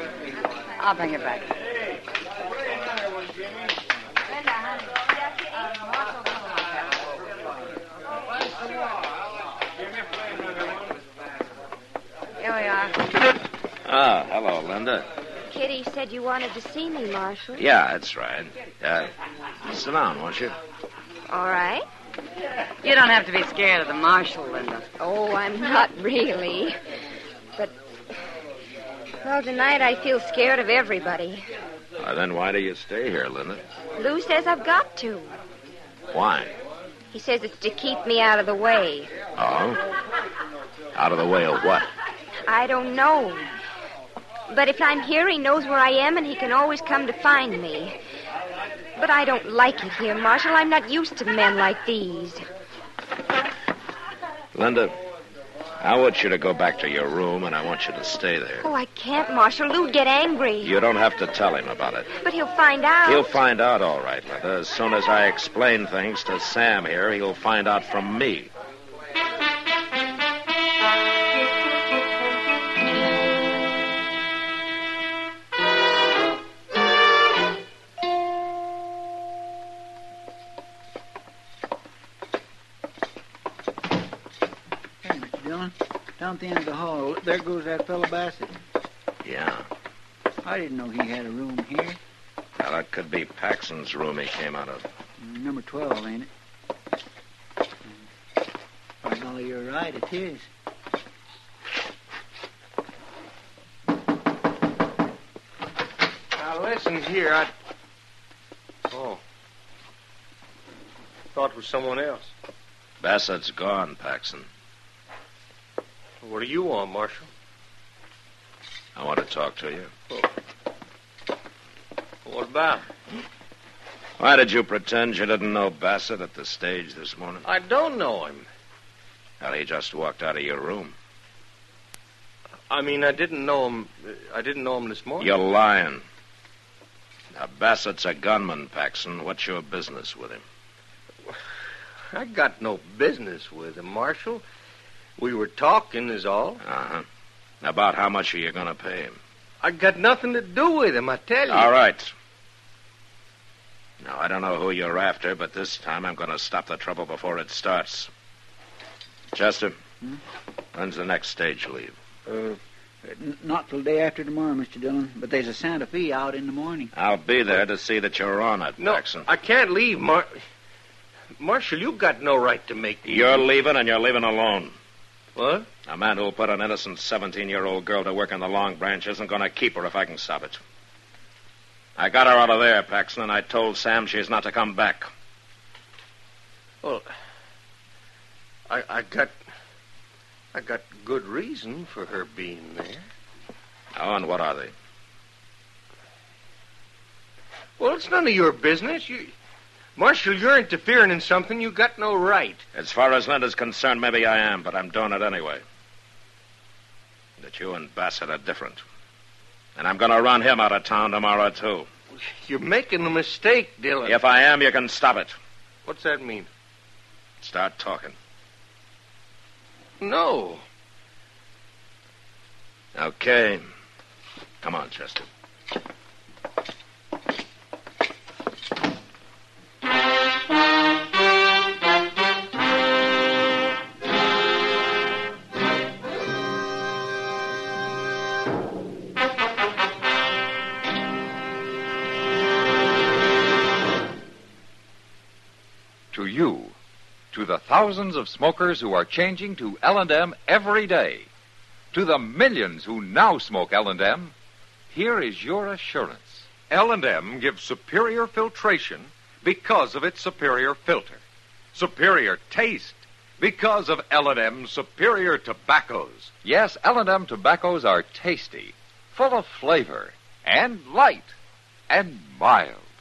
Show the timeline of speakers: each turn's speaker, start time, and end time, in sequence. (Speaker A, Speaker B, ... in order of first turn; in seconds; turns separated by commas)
Speaker A: 0.8-1.5, Speaker A: 12.4-12.9, Speaker B: 13.8-15.1, Speaker C: 15.5-17.6, Speaker B: 17.6-19.1, Speaker B: 19.6-20.6, Speaker C: 21.3-21.9, Speaker A: 22.8-24.9, Speaker C: 25.0-26.8, Speaker C: 29.2-31.4, Speaker B: 32.0-33.6, Speaker C: 34.0-35.4, Speaker B: 36.1-36.5, Speaker C: 37.1-39.1, Speaker B: 39.4-39.8, Speaker B: 41.0-41.9, Speaker C: 42.5-43.5, Speaker C: 44.5-48.0, Speaker C: 49.0-52.4, Speaker B: 54.5-55.0, Speaker B: 55.8-58.7, Speaker C: 58.6-60.8, Speaker B: 60.6-62.1, Speaker C: 62.1-63.4, Speaker B: 63.0-68.5, Speaker D: 85.0-88.5, Speaker B: 89.2-89.7, Speaker D: 90.4-92.0, Speaker B: 92.6-94.8, Speaker D: 95.2-96.3, Speaker D: 99.0-100.5, Speaker E: 106.3-107.5, Speaker E: 108.9-109.2, Speaker E: 111.3-112.3, Speaker B: 113.0-114.5, Speaker E: 116.2-117.3, Speaker B: 119.0-119.9, Speaker E: 122.2-122.9, Speaker B: 124.2-127.5, Speaker E: 127.5-128.5, Speaker B: 129.4-130.9, Speaker E: 132.7-135.4, Speaker B: 135.2-136.0, Speaker B: 137.3-140.4, Speaker E: 142.1-144.4, Speaker E: 145.2-146.6, Speaker B: 146.6-147.1, Speaker B: 147.6-149.2, Speaker E: 149.6-151.7, Speaker B: 151.5-152.1, Speaker B: 154.0-158.1, Speaker B: 159.3-159.8, Speaker B: 160.7-162.0, Speaker D: 162.3-166.9, Speaker B: 166.9-169.3, Speaker E: 168.8-170.4, Speaker E: 171.4-173.4, Speaker B: 173.1-174.8, Speaker E: 175.3-175.7, Speaker B: 175.9-180.6, Speaker B: 182.0-185.1, Speaker E: 186.8-187.1, Speaker E: 188.7-189.4, Speaker E: 190.5-193.1, Speaker B: 193.9-194.7, Speaker E: 197.8-199.3, Speaker E: 200.0-202.6, Speaker B: 202.7-205.6, Speaker B: 207.4-208.8, Speaker B: 209.8-211.9, Speaker E: 212.2-214.2, Speaker B: 214.1-215.4, Speaker E: 215.8-216.5, Speaker B: 217.4-218.2, Speaker E: 220.0-220.6, Speaker B: 222.9-223.6, Speaker B: 224.6-225.3, Speaker F: 246.1-246.8, Speaker F: 247.3-251.3, Speaker F: 251.9-254.3, Speaker F: 254.9-256.7, Speaker F: 266.4-271.4, Speaker F: 271.9-272.9